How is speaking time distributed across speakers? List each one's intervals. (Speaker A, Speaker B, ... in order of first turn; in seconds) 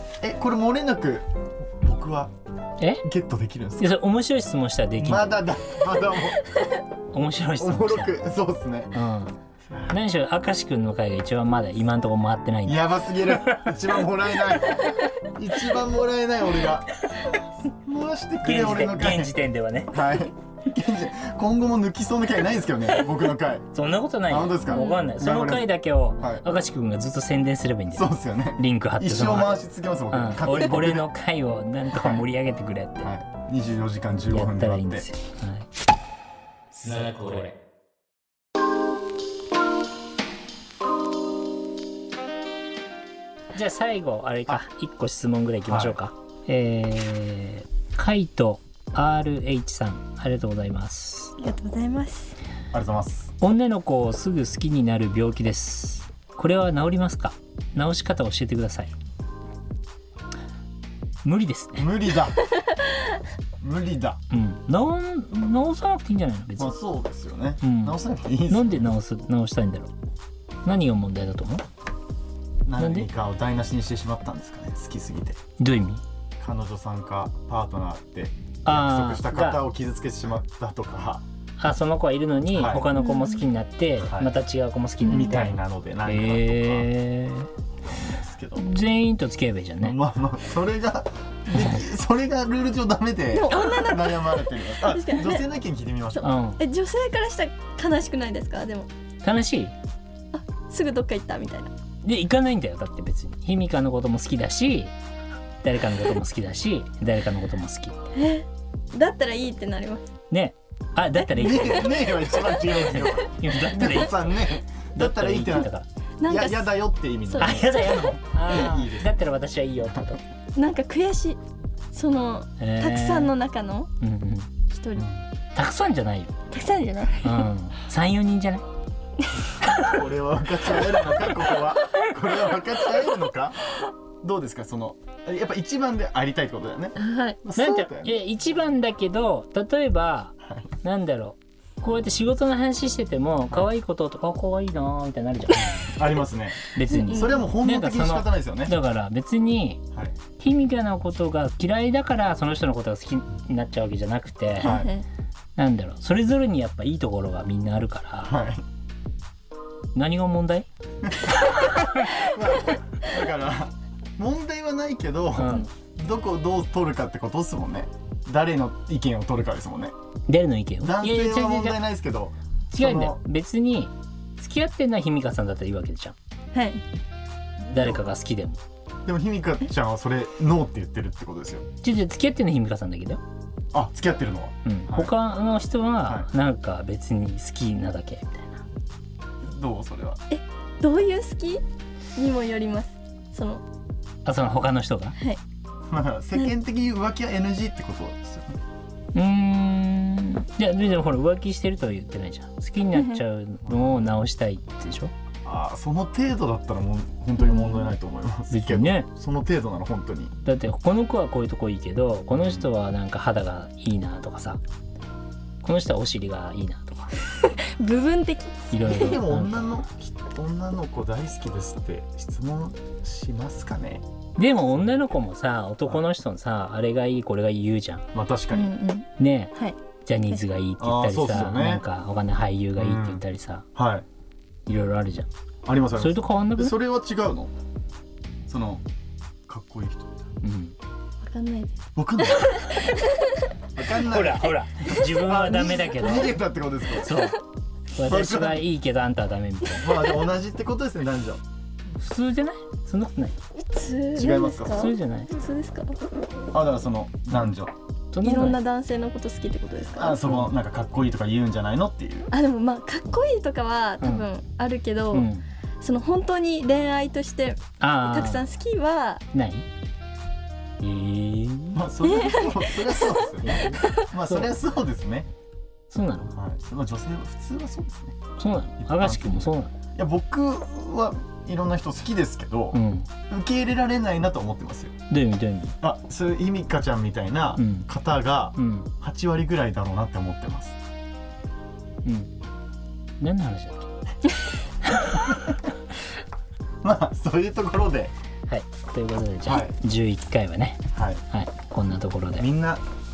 Speaker A: 0.2-1.2, 1.8-2.3, 3.0-3.9, 5.0-6.4, 7.6-8.9, 12.6-16.9, 17.7-19.3, 19.9-23.7, 24.3-26.4, 27.9-31.1, 31.9-32.2, 33.0-35.1, 45.6-46.0, 52.7-53.3, 61.8-62.4, 63.6-64.2, 66.6-68.9, 72.6-75.4, 76.4-81.2, 82.5-82.9, 84.0-84.3, 85.0-86.9, 87.8-88.7, 89.8-96.3, 111.3-115.7, 116.3-119.2, 125.0-125.2, 129.6-133.7, 134.2-138.2, 140.4-140.7, 145.9-148.8, 154.6-154.9, 158.2-158.6, 162.0-169.9, 170.8-173.2, 177.7-178.0, 179.1-181.6, 183.7-185.1, 189.4-190.2, 195.9-198.6, 203.6-204.1, 205.4-210.3, 212.3-212.7, 218.8-224.0, 228.1-228.7, 230.8-231.8, 232.8-233.2, 233.7-234.0, 235.6-237.5, 238.5-238.8, 239.5-240.3, 241.9-242.6, 243.8-247.2, 248.0-248.6, 249.8-251.4, 254.1-254.9, 256.5-257.7, 259.8-262.3, 271.7-275.3, 276.3-278.1, 278.8-284.9, 285.8-290.7, 296.8-298.1, 299.4-299.8, 300.9-301.2, 302.4-302.8
Speaker B: 3.8-5.4, 7.1-8.1, 8.9-9.3, 9.9-13.7, 18.4-20.1, 23.7-29.6, 30.1-33.1, 34.3-35.7, 36.7-37.5, 43.5-51.4, 53.4-58.9, 61.2-61.9, 64.3-66.7, 67.6-68.0, 68.5-69.9, 70.6-71.6, 72.8-73.1, 75.6-76.0, 78.6-79.6, 81.6-87.5, 88.5-90.0, 91.5-91.9, 96.2-96.6, 99.2-99.7, 102.0-104.9, 105.6-108.1, 110.3-114.3, 114.9-115.8, 117.4-120.2, 122.6-123.3, 124.0-124.5, 125.5-126.3, 127.2-128.6, 129.6-129.9, 137.6-145.9, 146.7-149.8, 150.4-154.8, 155.6-158.3, 159.9-160.7, 161.2-162.0, 165.3-165.7, 170.3-171.8, 172.7-176.1, 177.7-178.6, 181.8-183.2, 184.6-188.6, 194.2-195.2, 199.1-205.1, 208.5-209.1, 210.4-214.6, 215.6-217.2, 218.7-219.7, 224.4-228.0, 229.2-229.5, 230.0-233.6, 234.7-235.3, 235.9-236.8, 240.4-240.7, 244.1-246.4, 247.0-247.4, 247.9-250.1, 251.9-253.3, 254.7-255.3, 258.1-258.6, 260.2-260.5, 264.0-264.3, 265.1-265.4, 267.8-268.4, 269.3-269.6, 270.8-271.9, 274.2-274.5, 275.9-276.3, 278.4-279.7, 282.7-283.1, 285.1-285.8, 287.6-287.9, 288.6-288.9, 292.0-292.3, 293.2-293.9, 294.8-295.6, 298.5-302.5
Speaker C: 24.7-25.0, 51.4-52.3, 82.9-83.5, 85.0-85.5, 93.3-95.4, 96.2-98.9, 100.3-101.7, 108.1-110.0, 116.2-118.7, 120.5-121.4, 121.9-123.9, 124.7-125.1, 126.5-127.5, 137.0-137.4, 146.9-147.5, 154.6-155.1, 176.5-176.8, 190.3-191.6, 192.2-193.6, 202.9-203.2, 207.4-207.9, 217.4-219.2, 228.5-229.8, 241.2-243.3, 253.6-255.9, 258.2-260.2, 262.3-265.3, 265.8-269.2, 272.0-273.9